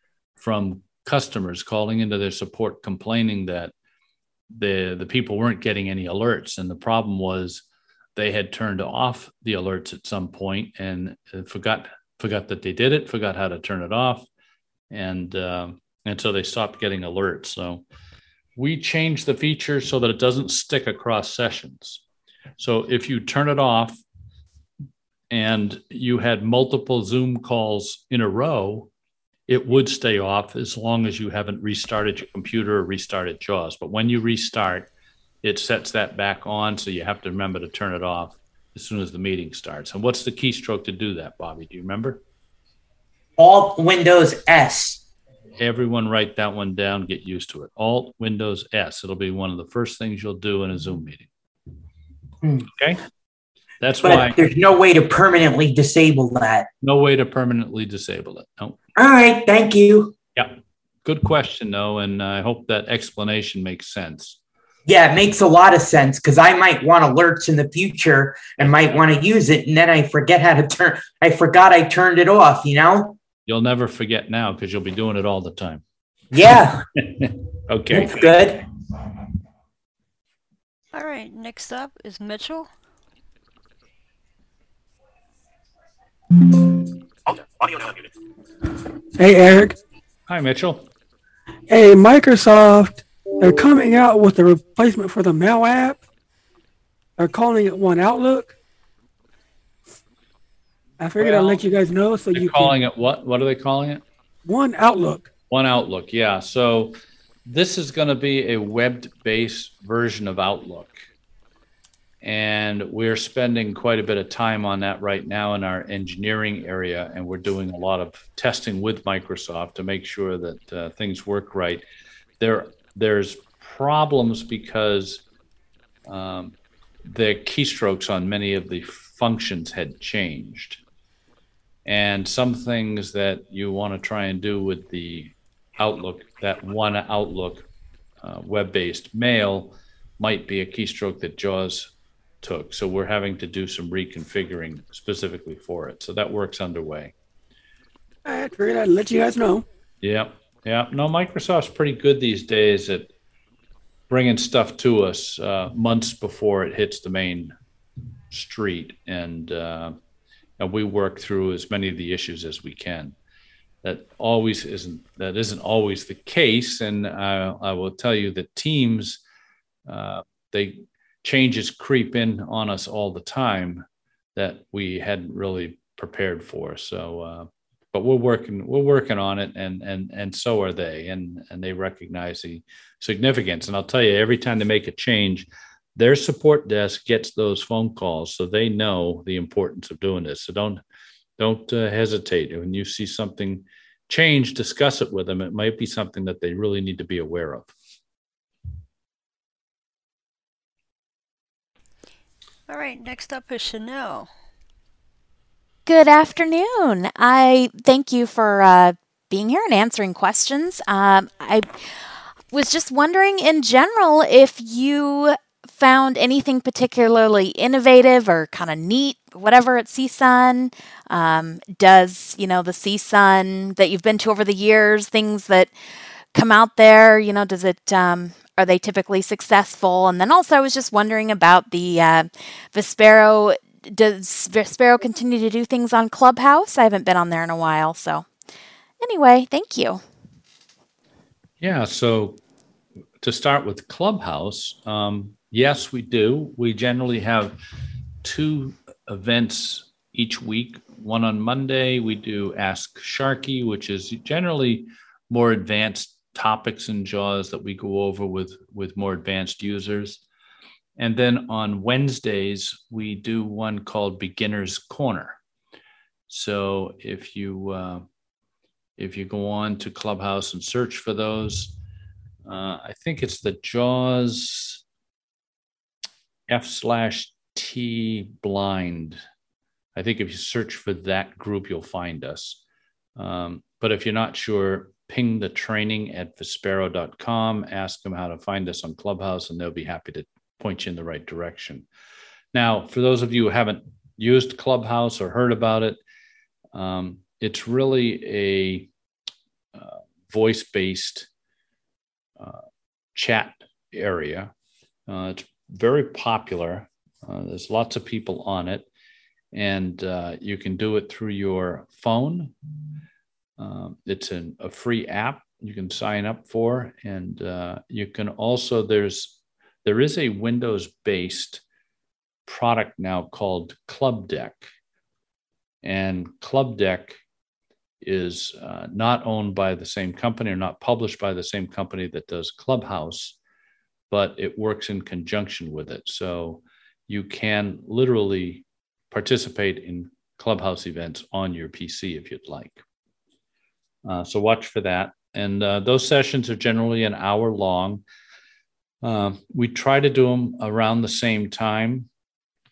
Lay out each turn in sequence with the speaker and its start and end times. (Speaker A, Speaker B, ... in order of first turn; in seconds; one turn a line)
Speaker A: 0.4-3.7
Speaker A: 4.5-7.6
Speaker A: 8.2-14.3
Speaker A: 14.9-17.8
Speaker A: 18.6-22.0
Speaker A: 22.6-24.0
Speaker A: 25.3-28.9
Speaker A: 29.5-34.9
Speaker A: 35.4-42.2
Speaker B: 43.4-45.0
Speaker A: 45.6-51.3
Speaker A: 52.7-53.0
Speaker A: 53.8-54.4
Speaker B: 54.0-56.7
Speaker A: 56.8-58.8
Speaker B: 59.0-60.1
Speaker A: 60.3-64.4
Speaker B: 64.9-73.2
Speaker A: 73.5-75.8
Speaker B: 76.3-76.9
Speaker A: 77.0-78.2
Speaker B: 77.9-78.6
Speaker C: 80.9-82.7
Speaker D: 89.2-89.8
Speaker A: 90.3-90.8
Speaker D: 91.7-96.0
Speaker D: 97.2-98.5
Speaker D: 101.0-102.8
Speaker A: 101.2-101.6
Speaker A: 102.3-104.0
Speaker D: 104.4-105.3
Speaker A: 105.5-111.0
Speaker A: 112.2-121.8
Speaker A: 122.4-125.2
Speaker A: 126.0-126.5
Speaker A: 127.1-130.8
Speaker A: 131.8-137.6
Speaker A: 138.2-141.9
Speaker A: 142.4-147.1
Speaker D: 148.2-149.6
Speaker A: 150.0-153.1
Speaker A: 154.1-157.5
Speaker A: 158.3-160.0
Speaker A: 160.6-163.1
Speaker A: 163.8-169.2
Speaker A: 169.9-173.8
Speaker A: 174.3-190.8
Speaker A: 191.4-197.7
Speaker C: 202.7-204.3
Speaker E: 205.8-211.8
Speaker E: 212.5-225.7
Speaker E: 226.3-238.3
Speaker E: 239.0-240.0
Speaker A: 241.6-242.4
Speaker A: 243.2-247.6
Speaker A: 248.2-260.2
Speaker A: 261.0-265.4
Speaker A: 266.3-268.0
Speaker A: 269.0-271.8
Speaker A: 272.4-274.8
Speaker A: 276.5-279.2
Speaker A: 279.9-282.6
Speaker A: 283.2-291.9
Speaker A: 292.5-296.0
Speaker A: 296.7-298.9
Speaker A: 299.7-301.3
Speaker A: 303.1-304.5
Speaker A: 305.1-308.9
Speaker A: 309.5-312.5
Speaker A: 313.6-321.6
Speaker A: 322.5-324.7
Speaker A: 325.8-327.2
Speaker A: 328.0-333.4
Speaker A: 334.1-342.8
Speaker A: 344.0-348.0
Speaker A: 349.0-352.1